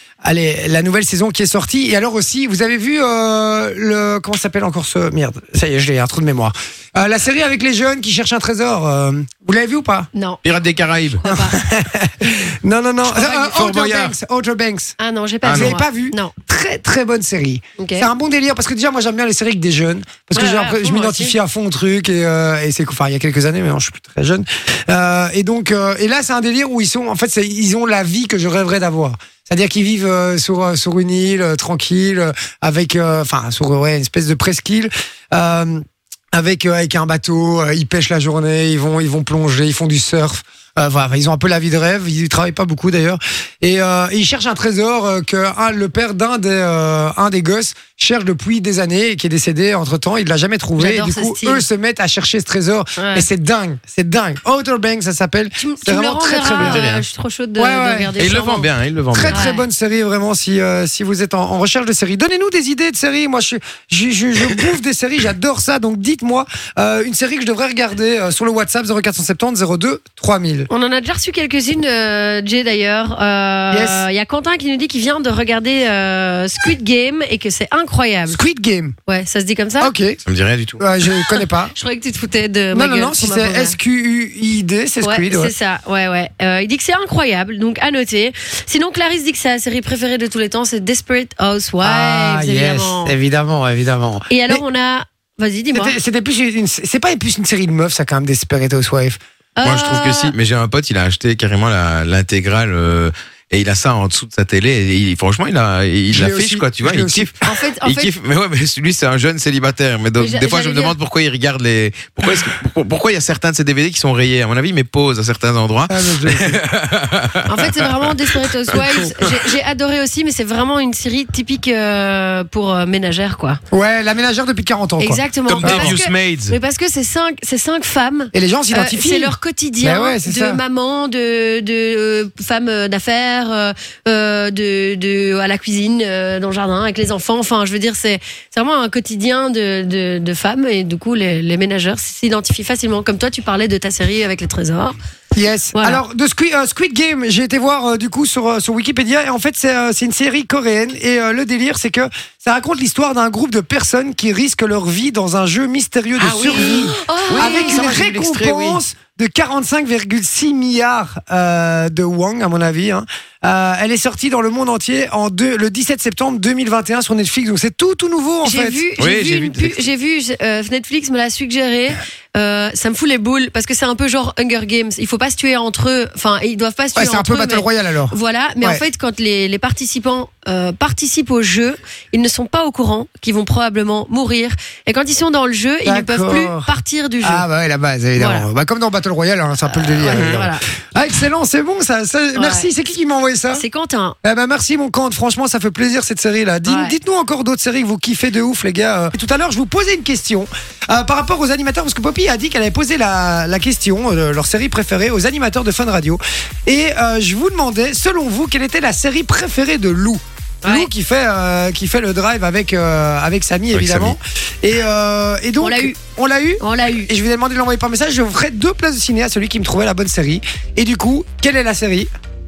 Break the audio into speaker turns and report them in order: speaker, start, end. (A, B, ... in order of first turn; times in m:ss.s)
0:00.2-0:10.1 A
0:10.1-0:10.4 B
0:10.4-0:11.2 C
0:11.2-0:11.6 B
0:11.3-0:15.0 A
0:13.0-0:14.2 C
0:15.0-0:16.3 B
0:15.4-0:15.8 C
0:15.5-0:56.9 A
0:17.8-0:18.1 B
0:20.3-0:21.4 B
0:50.8-0:51.7 B
0:53.0-0:53.3 B
0:55.6-0:58.7 B
0:56.6-0:57.0 C
0:57.6-0:58.1 A
0:58.2-0:59.4 C
0:59.1-1:10.7 A
0:59.3-0:59.7 B
1:10.7-1:18.4 B
1:13.7-1:14.0 A
1:18.3-1:18.9 A
1:19.1-1:19.9 B
1:19.8-1:20.2 A
1:20.2-1:20.8 C
1:20.8-1:21.7 A
1:21.3-1:23.8 B
1:22.7-1:25.5 A
1:25.0-1:33.1 B
1:31.8-1:34.6 A
1:34.3-1:36.0 B
1:35.7-1:39.2 A
1:39.6-1:40.4 B
1:39.6-1:59.4 C
1:46.1-1:47.3 A
1:47.4-1:48.1 B
1:50.2-1:51.0 B
1:55.9-1:56.6 A
1:57.5-2:03.6 B
2:03.7-2:06.0 A
2:05.0-2:25.0 B
2:05.5-2:06.6 C
2:08.3-2:10.6 A
2:25.4-2:48.8 A
2:25.7-2:26.0 B
2:36.2-2:38.8 C
2:36.5-2:37.9 B
2:48.4-3:07.5 B
2:49.0-2:49.9 C
2:57.0-2:58.8 A
3:05.8-3:13.6 A
3:08.2-3:08.5 B
3:09.6-3:10.6 B
3:10.2-3:10.5 C
3:12.4-3:12.7 B
3:13.5-3:14.2 B
3:14.2-3:42.1 A
3:16.7-3:17.0 B
3:30.6-3:30.9 B
3:33.7-3:34.2 C
3:35.6-3:36.0 B
3:36.6-3:37.1 B